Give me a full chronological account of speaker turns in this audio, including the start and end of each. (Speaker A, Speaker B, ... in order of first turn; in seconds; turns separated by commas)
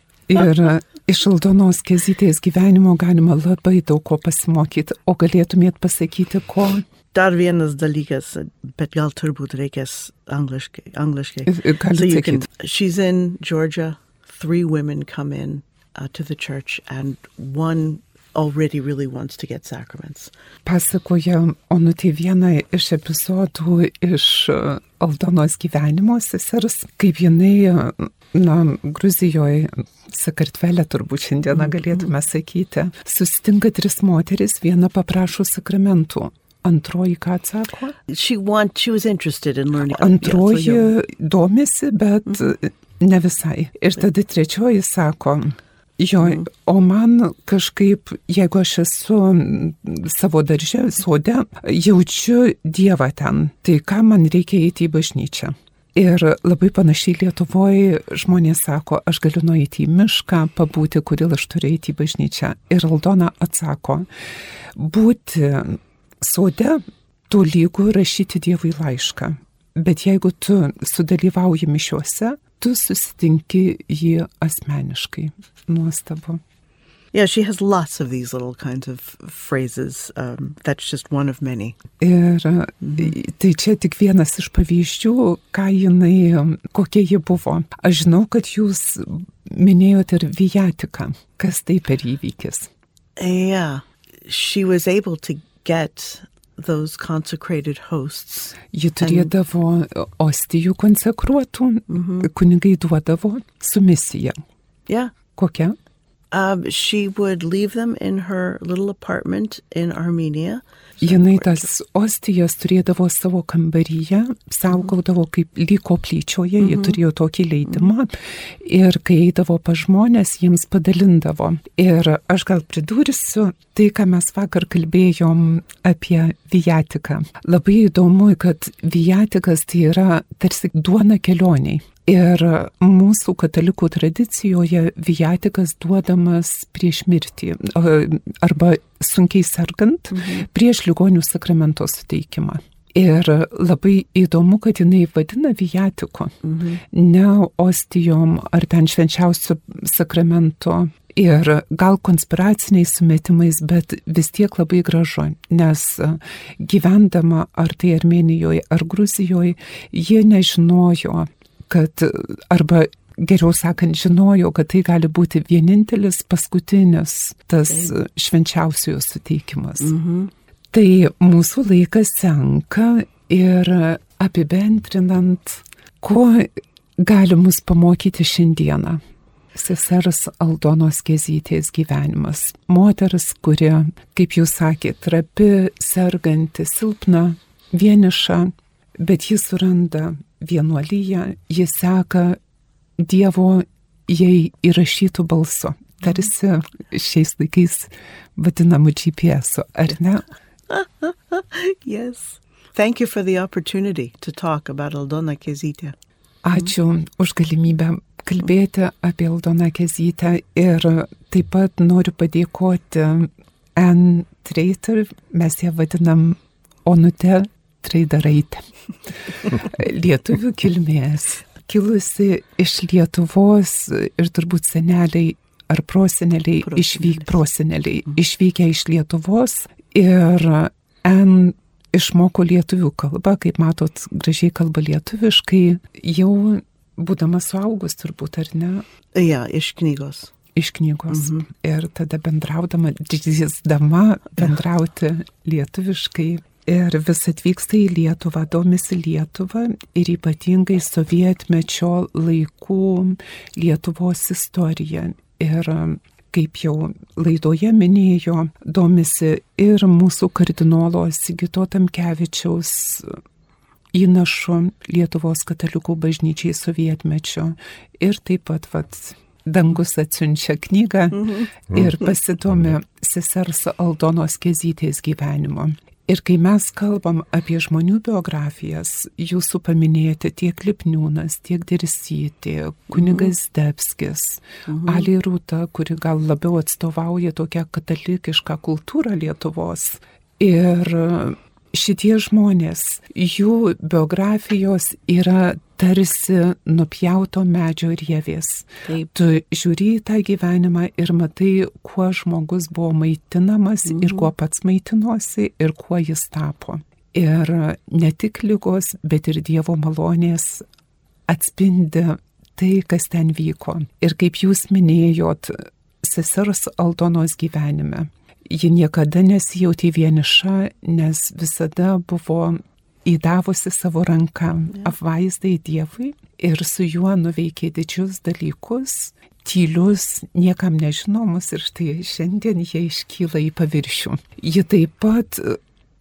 Speaker A: 0.3-6.8, Speaker B: 7.1-20.3, Speaker A: 11.4-12.4, Speaker A: 20.6-37.9, Speaker B: 31.5-32.1, Speaker B: 38.1-40.9, Speaker A: 40.0-64.1, Speaker B: 46.2-46.5, Speaker A: 64.7-76.4, Speaker B: 77.1-81.8, Speaker A: 82.0-92.7, Speaker B: 82.8-83.1, Speaker B: 93.2-99.3, Speaker A: 98.7-104.4, Speaker B: 101.9-102.3, Speaker B: 104.9-105.1, Speaker A: 105.3-105.8, Speaker B: 106.3-111.7, Speaker A: 111.0-146.4, Speaker B: 116.6-117.0, Speaker B: 140.1-140.4, Speaker B: 146.4-146.8, Speaker A: 146.9-169.9, Speaker B: 169.8-170.3, Speaker A: 170.7-179.0, Speaker A: 179.5-192.4, Speaker A: 193.0-200.2, Speaker B: 200.7-205.9, Speaker A: 206.4-218.6, Speaker A: 219.3-238.8, Speaker B: 226.6-227.3, Speaker B: 239.1-240.3, Speaker A: 240.5-263.2, Speaker B: 241.1-241.4, Speaker A: 263.9-310.6, Speaker B: 271.1-271.5, Speaker B: 282.9-283.3, Speaker B: 284.7-285.1, Speaker B: 303.9-304.3, Speaker A: 311.3-335.6